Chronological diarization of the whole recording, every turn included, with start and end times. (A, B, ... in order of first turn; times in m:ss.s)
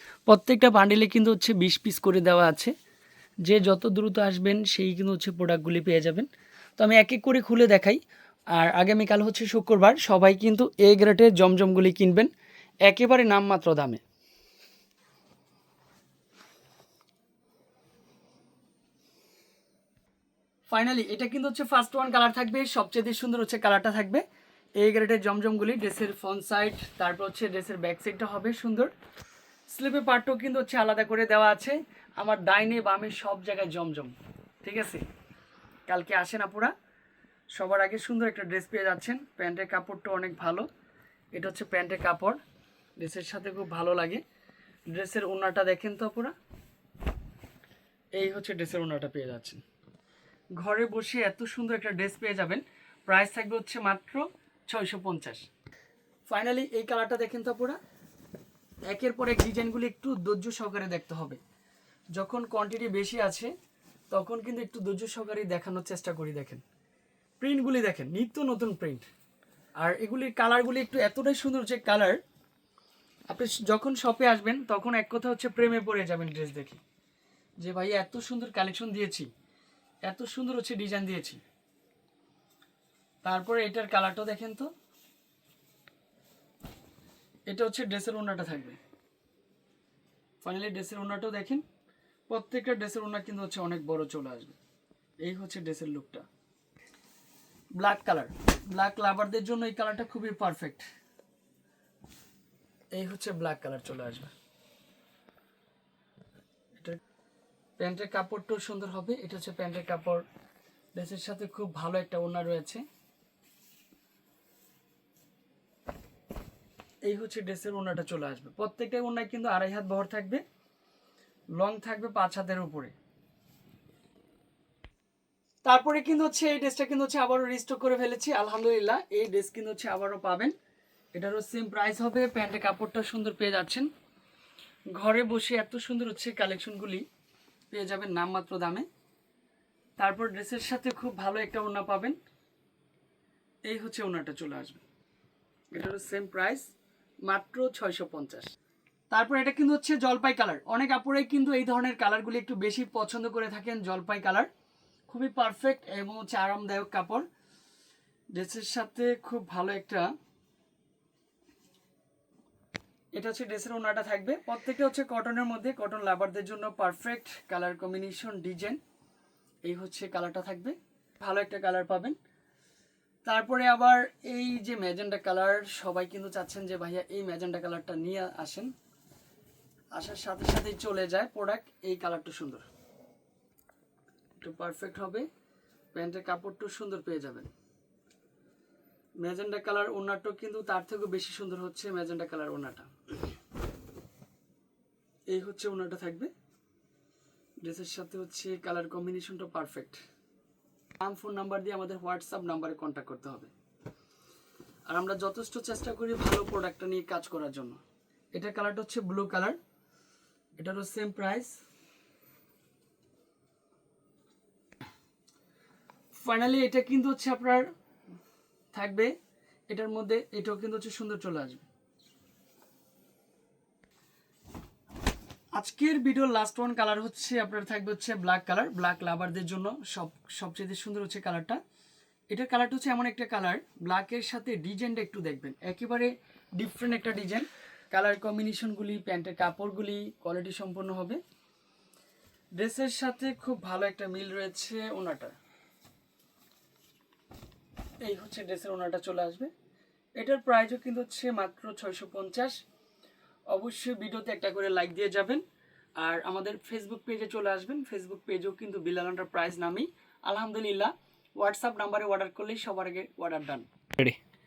0:00.3-0:02.7 A
0:03.4-0:08.0 A
0:08.5-0:12.3 A
0:12.8-0:14.0 A
0:20.7-0:24.2 A
0:24.8-0:28.9 A
0:29.7-0:35.0 A
0:35.9-0:36.7 A
0:37.6-0:40.7 A
0:41.3-0:42.4 A
0:43.0-0:44.2 A
0:44.9-0:46.3 A
0:48.2-0:49.6 A
0:50.6-0:55.5 A
0:56.3-0:57.8 A
0:58.9-1:01.4 A
1:02.1-1:03.5 A
1:04.1-1:06.6 A
1:07.4-1:09.0 A
1:09.8-1:12.2 A
1:13.3-1:16.8 A
1:17.6-1:19.3 A
1:20.0-1:21.4 A
1:23.2-1:24.7 A
1:27.5-1:28.8 A
1:30.4-1:31.6 A
1:32.3-1:34.6 A
1:35.2-1:36.3 A
1:37.8-1:40.8 A
1:42.9-1:44.3 A
1:47.8-1:50.2 A
1:51.0-1:52.8 A
1:57.0-2:00.4 A
2:01.6-2:02.9 A
2:05.6-2:10.5 A
2:11.1-2:13.9 A
2:14.9-2:17.0 A
2:17.7-2:18.9 A
2:20.0-2:22.2 A
2:23.6-2:24.8 A
2:25.7-2:26.7 A
2:27.2-2:28.5 A
2:29.1-2:34.5 A
2:35.1-2:37.3 A
2:38.3-2:40.1 A
2:43.1-2:48.8 A
2:49.6-2:52.2 A
2:53.2-2:58.7 A
2:59.9-3:02.6 A
3:04.4-3:05.3 A
3:05.9-3:07.5 A
3:09.2-3:12.9 A
3:15.3-3:16.3 A
3:17.6-3:20.0 A
3:21.0-3:23.5 A
3:24.9-3:27.8 A
3:28.3-3:29.6 A
3:30.6-3:31.6 A
3:36.1-3:37.7 A
3:38.7-3:39.1 A
3:39.7-3:41.6 A
3:45.6-3:51.6 A
3:52.3-4:01.2 A
4:02.6-4:05.3 A
4:08.0-4:09.5 A
4:10.2-4:12.6 A
4:13.5-4:15.4 A
4:16.0-4:24.2 A